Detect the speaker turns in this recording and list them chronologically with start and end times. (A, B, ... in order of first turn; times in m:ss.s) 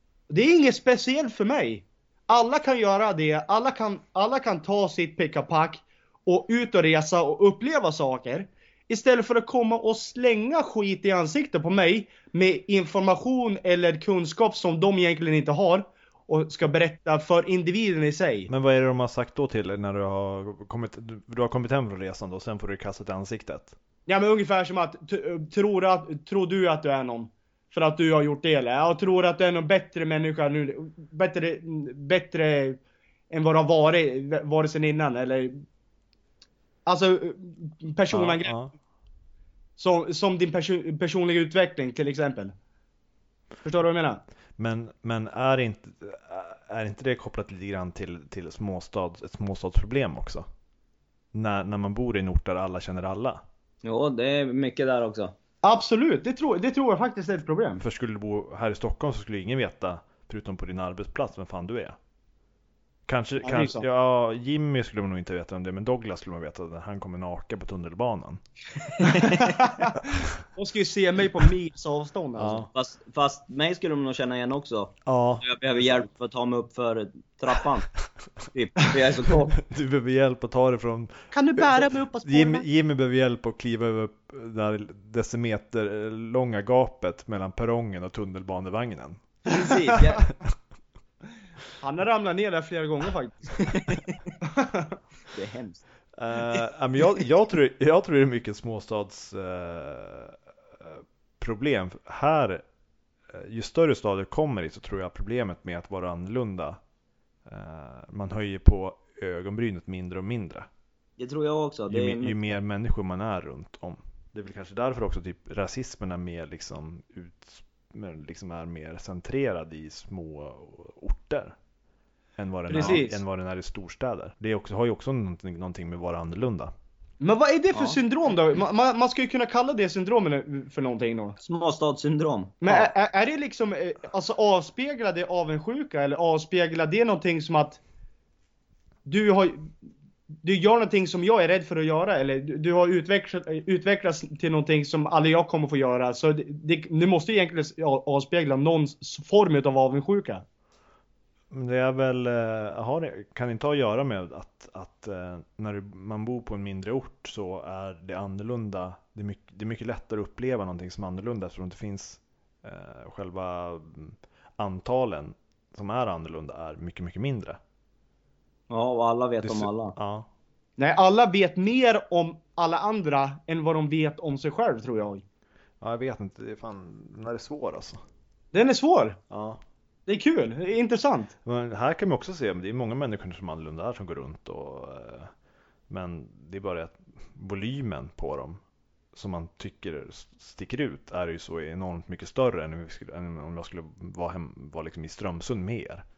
0:00.3-0:18.5 A
0:18.5-0:23.8 B
0:24.1-0:35.6 A
0:36.8-0:38.5 A
0:38.1-0:38.7 B
0:39.8-0:42.5 A
0:43.6-0:44.2 A
0:44.6-0:50.4 B
0:51.3-0:53.4 B
0:53.8-0:55.3 C
0:55.6-0:57.8 A
0:57.8-1:02.0 B
1:03.1-1:08.4 B
1:03.4-1:03.8 A
1:09.0-1:09.6 C
1:09.0-1:12.6 A
1:12.4-1:12.7 B
1:12.7-1:17.9 C
1:15.0-1:15.4 B
1:18.5-1:19.6 C
1:19.6-1:29.2 B
1:21.3-1:22.6 A
1:29.5-1:30.2 C
1:31.8-1:33.7 A
1:33.6-1:34.2 C
1:34.4-1:35.0 A
1:35.3-1:35.8 C
1:36.2-1:42.6 B
1:43.3-1:46.8 B
1:47.4-1:50.6 B
1:51.2-1:52.6 C
1:51.9-2:01.5 B
2:02.4-2:06.7 B
2:02.7-2:03.2 A
2:07.2-2:11.4 A
2:11.4-2:12.7 C
2:12.6-2:17.8 A
2:19.0-2:19.7 A
2:20.4-2:30.4 A
2:31.5-2:47.6 B
2:48.7-2:49.9 C
2:49.4-2:50.3 B
2:50.8-2:55.2 A
2:55.8-2:58.0 B
2:58.5-2:59.2 A
2:59.3-2:59.6 B
3:00.0-3:01.3 A
3:01.4-3:05.3 B
3:05.9-3:08.6 B
3:09.1-3:16.0 B